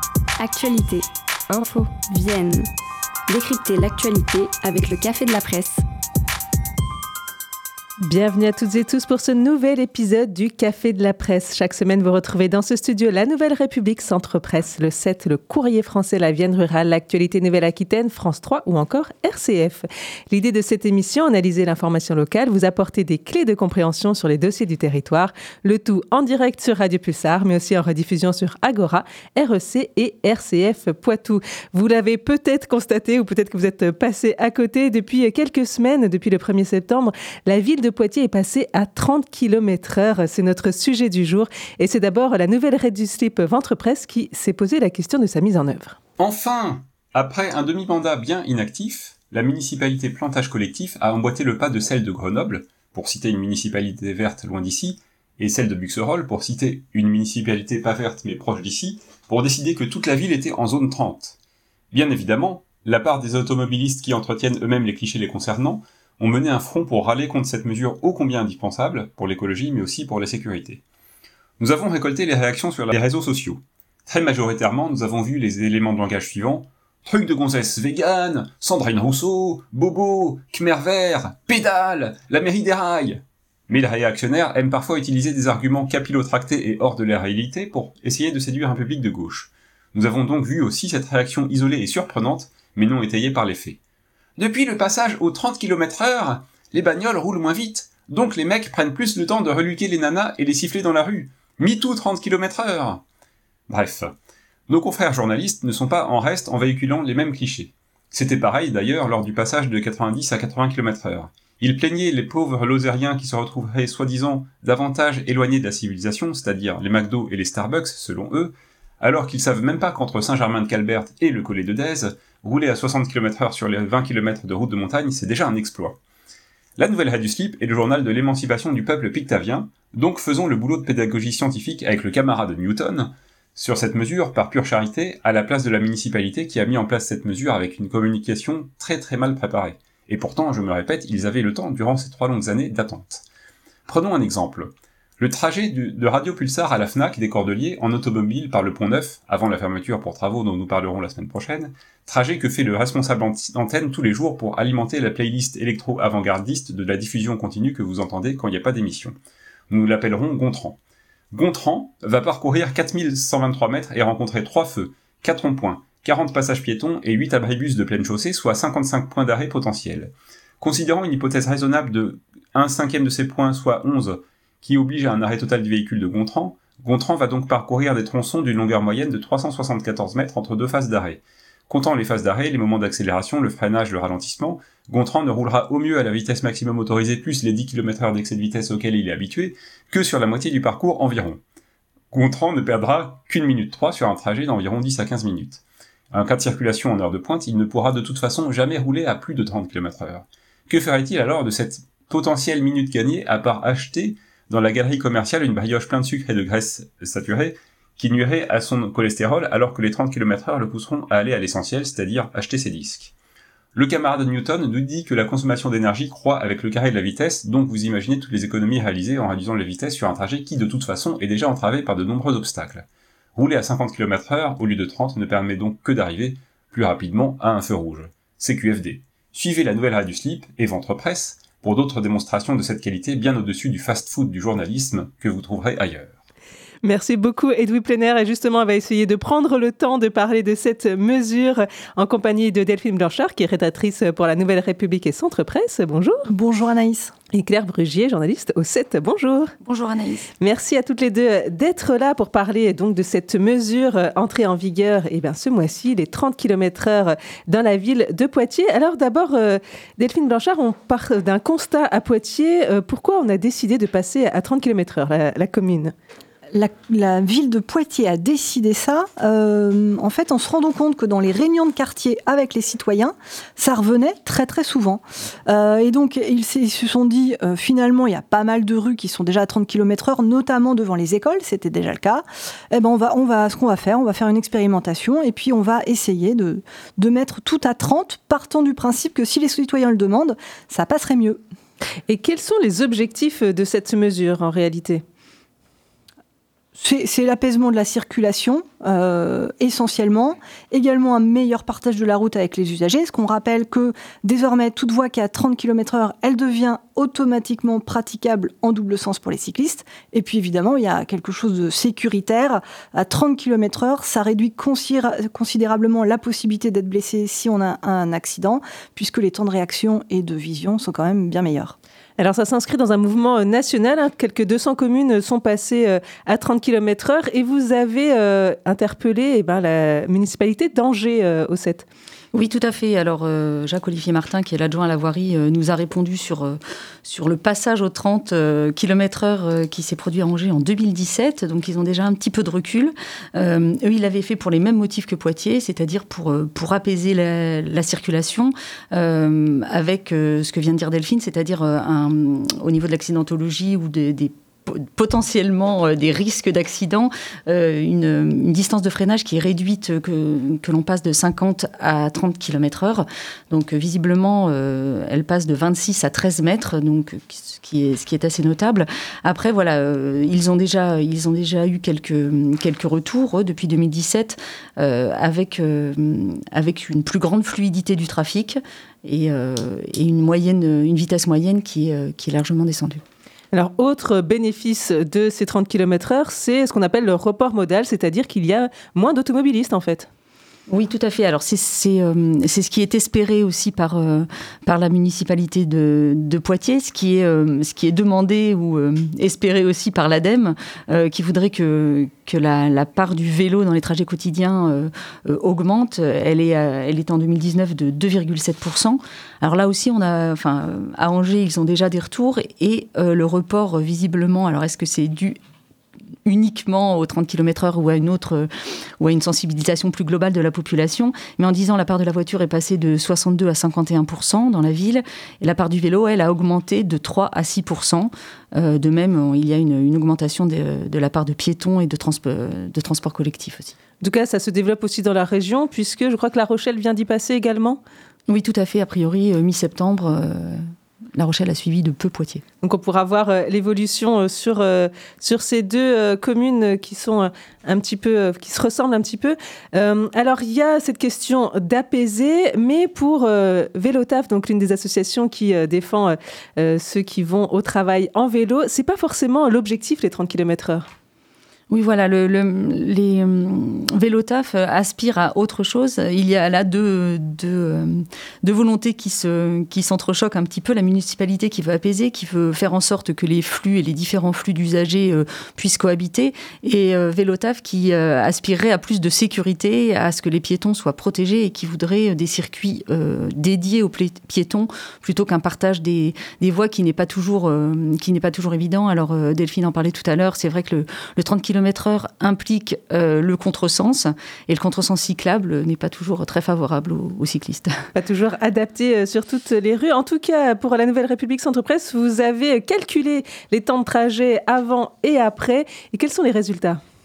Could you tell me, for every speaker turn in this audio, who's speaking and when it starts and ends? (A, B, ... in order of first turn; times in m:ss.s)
0:00.4-0:02.7 A
0:03.3-0:05.8 A
0:08.0-0:46.0 B
0:46.2-1:01.4 C
1:01.9-1:10.8 C
1:11.6-1:33.8 C
1:34.4-1:43.0 C
1:43.7-1:44.1 C
1:44.7-2:06.0 C
2:06.8-2:23.2 C
2:23.9-2:39.2 C
2:39.7-2:40.8 C
2:41.3-3:11.4 C
3:12.1-3:33.1 C
3:33.7-3:56.1 C
3:56.8-4:06.3 B
4:06.3-4:07.1 D
4:07.3-4:09.5 B
4:09.6-4:10.3 E
4:10.4-4:25.9 B
4:26.5-4:51.4 D
4:52.1-4:55.0 B
4:56.7-5:21.8 D
5:22.2-5:31.8 B
5:32.3-6:23.0 E
6:23.5-6:30.1 B
6:30.7-6:55.4 E
6:56.2-6:58.5 E
6:59.0-7:13.7 E
7:14.0-7:17.8 B
7:18.3-7:22.4 E
7:22.6-7:40.9 B
7:41.7-8:17.7 E
8:17.9-8:26.8 B